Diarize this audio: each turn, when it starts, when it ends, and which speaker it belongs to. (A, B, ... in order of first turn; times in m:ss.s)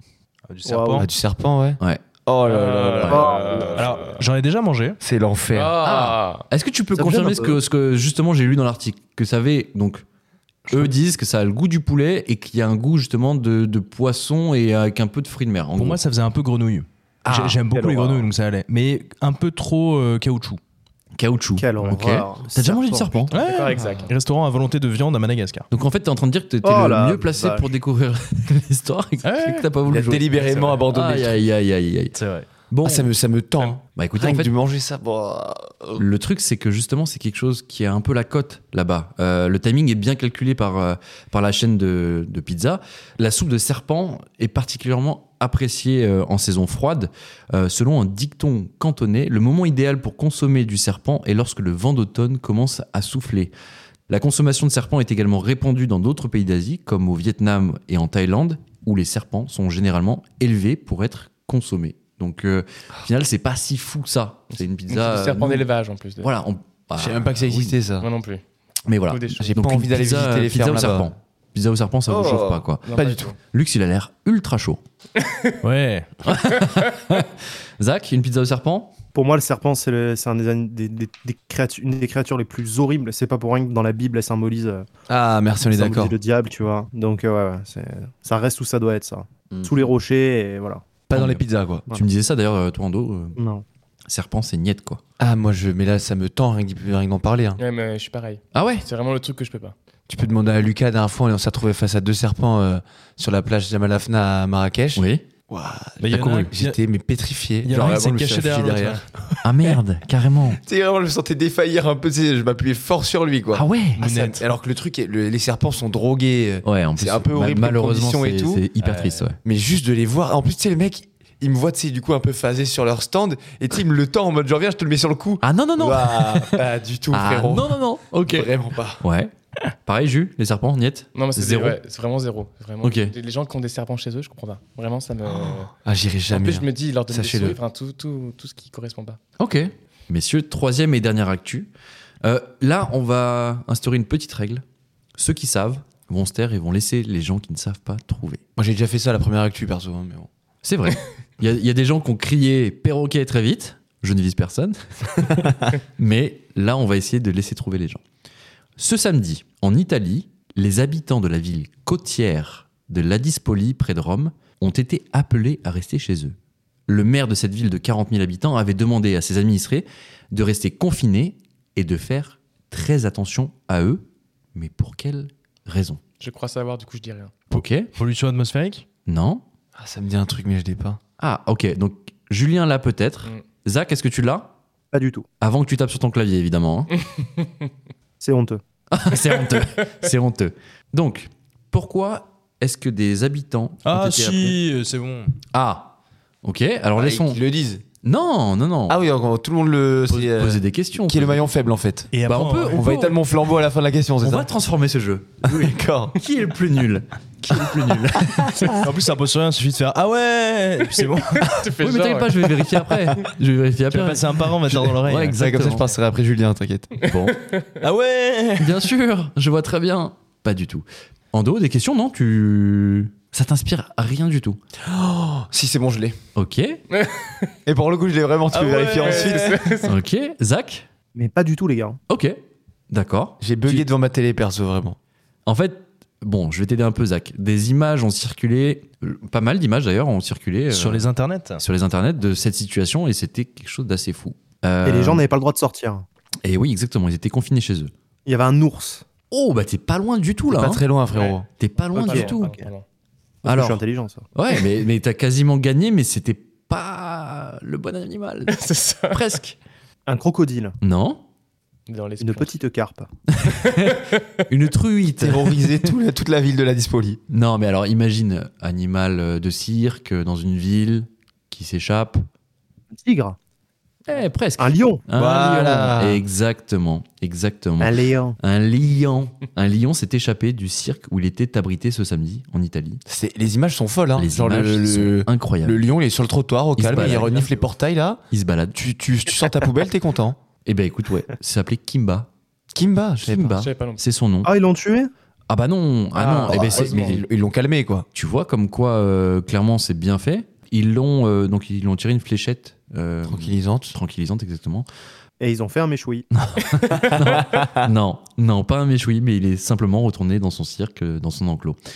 0:00.5-0:01.1 A
0:00.6-0:01.1 B
0:01.0-0:03.7 C
0:02.4-0:04.2 D
0:03.0-0:04.0 B
0:03.7-0:05.0 A
0:05.0-0:05.8 C
0:05.5-0:06.5 D
0:05.8-0:10.0 E
0:06.9-0:07.6 B
0:10.7-0:16.0 E
0:15.8-0:20.6 A
0:17.2-0:17.6 E
0:17.7-0:18.3 B
0:21.2-0:23.4 E
0:21.6-0:23.4 B
0:23.3-0:25.7 A
0:23.4-0:24.1 D
0:25.7-0:32.2 E
0:26.6-0:27.7 B
0:29.2-0:29.7 A
0:29.8-0:31.4 C
0:30.4-0:30.8 A
0:32.1-0:32.5 A
0:32.7-0:33.1 E
0:32.8-0:36.0 C
0:33.9-0:34.5 E
0:36.0-0:53.5 E
0:54.1-1:05.7 E
1:04.5-1:06.3 D
1:06.2-1:07.8 E
1:07.0-1:08.1 C
1:08.0-1:08.4 D
1:08.9-1:12.8 E
1:09.1-1:09.5 D
1:09.4-1:11.1 C
1:12.1-1:13.3 C
1:12.8-1:13.3 D
1:13.5-1:14.8 E
1:15.2-1:15.6 D
1:15.6-1:16.1 A
1:16.2-1:18.9 E
1:19.1-1:24.8 B
1:25.1-1:26.2 C
1:25.7-1:30.8 B
1:29.5-1:29.9 E
1:31.1-1:31.9 C
1:31.1-1:33.4 E
1:33.4-1:33.6 B
1:34.1-1:35.0 E
1:35.2-1:37.6 C
1:37.6-1:39.7 D
1:38.5-1:38.8 E
1:40.1-1:49.7 C
1:44.9-1:45.2 E
1:46.0-1:46.8 A
1:46.1-1:46.5 E
1:47.6-1:49.1 A
1:49.4-1:50.6 E
1:50.6-1:58.6 C
1:53.5-1:54.0 E
1:54.0-1:54.4 A
1:56.6-1:59.4 E
1:58.8-1:59.3 A
1:59.4-2:09.0 C
2:05.4-2:09.3 E
2:09.8-2:11.8 E
2:11.1-2:15.7 D
2:12.8-2:13.1 E
2:15.8-2:17.6 C
2:16.3-2:19.2 D
2:19.4-2:21.7 E
2:22.2-2:24.6 E
2:25.2-2:28.4 E
2:28.6-2:30.3 C
2:30.6-2:38.0 E
2:38.8-2:46.4 E
2:46.9-2:56.0 E
2:56.2-2:57.3 D
2:57.5-2:57.9 E
2:57.5-2:58.8 A
2:59.1-2:59.4 E
2:59.8-3:01.0 C
3:01.2-3:04.5 E
3:04.9-3:05.2 B
3:05.4-3:06.9 E
3:08.2-3:08.6 B
3:08.9-3:14.5 E
3:13.8-3:15.4 A
3:15.5-3:17.4 E
3:17.0-3:17.8 C
3:18.0-3:19.0 E
3:18.9-3:22.1 C
3:20.1-3:21.5 E
3:22.1-3:22.9 A
3:22.2-3:23.2 E
3:22.7-3:24.5 C
3:24.2-3:28.6 E
3:25.4-3:26.2 C
3:28.8-3:31.5 A
3:31.4-3:32.5 D
3:31.8-3:35.9 E
3:33.9-3:35.4 A
3:35.3-3:36.9 C
3:37.0-3:37.4 E
3:37.0-3:37.6 D
3:37.8-3:38.9 A
3:38.6-3:44.6 E
3:44.8-3:46.2 C
3:46.3-3:46.8 E
3:46.9-3:47.4 D
3:47.6-3:49.6 C
3:48.5-3:49.6 A
3:49.0-3:49.9 D
3:49.8-3:50.8 E
3:51.1-3:52.0 B
3:52.1-3:53.8 E
3:53.4-3:55.0 C
3:55.4-4:01.0 E
4:00.7-4:01.6 A
4:01.6-4:05.2 E
4:04.8-4:06.0 B
4:06.4-4:07.9 E
4:08.2-4:09.0 B
4:09.3-4:10.8 E
4:10.5-4:11.5 C
4:11.6-4:12.5 E
4:11.9-4:12.8 D
4:12.0-4:12.6 B
4:13.4-4:14.2 B
4:13.4-4:13.8 E
4:14.3-4:19.6 E
4:18.5-4:19.2 D
4:20.1-4:20.8 B
4:20.8-4:21.2 E
4:21.9-4:22.5 D
4:22.2-4:23.1 B
4:23.3-4:25.9 E
4:23.9-4:24.2 D
4:25.2-4:27.2 C
4:27.3-4:32.2 E
4:32.9-4:33.4 B
4:34.0-4:43.0 E
4:34.6-4:35.0 B
4:35.1-4:36.2 C
4:37.8-4:38.4 B
4:43.0-4:48.2 C
4:44.2-4:45.8 E
4:46.8-4:47.5 E
4:48.3-4:48.8 E
4:48.7-4:50.4 C
4:50.6-4:52.3 E
4:52.7-4:53.6 C
4:53.2-4:54.5 E
4:53.5-4:54.0 D
4:54.4-4:55.1 B
4:55.5-4:57.2 E
4:56.2-4:58.1 C
4:56.3-4:57.2 D
4:58.1-5:04.9 E
5:03.2-5:03.9 C
5:05.4-5:06.3 B
5:06.4-5:11.8 E
5:06.9-5:07.9 C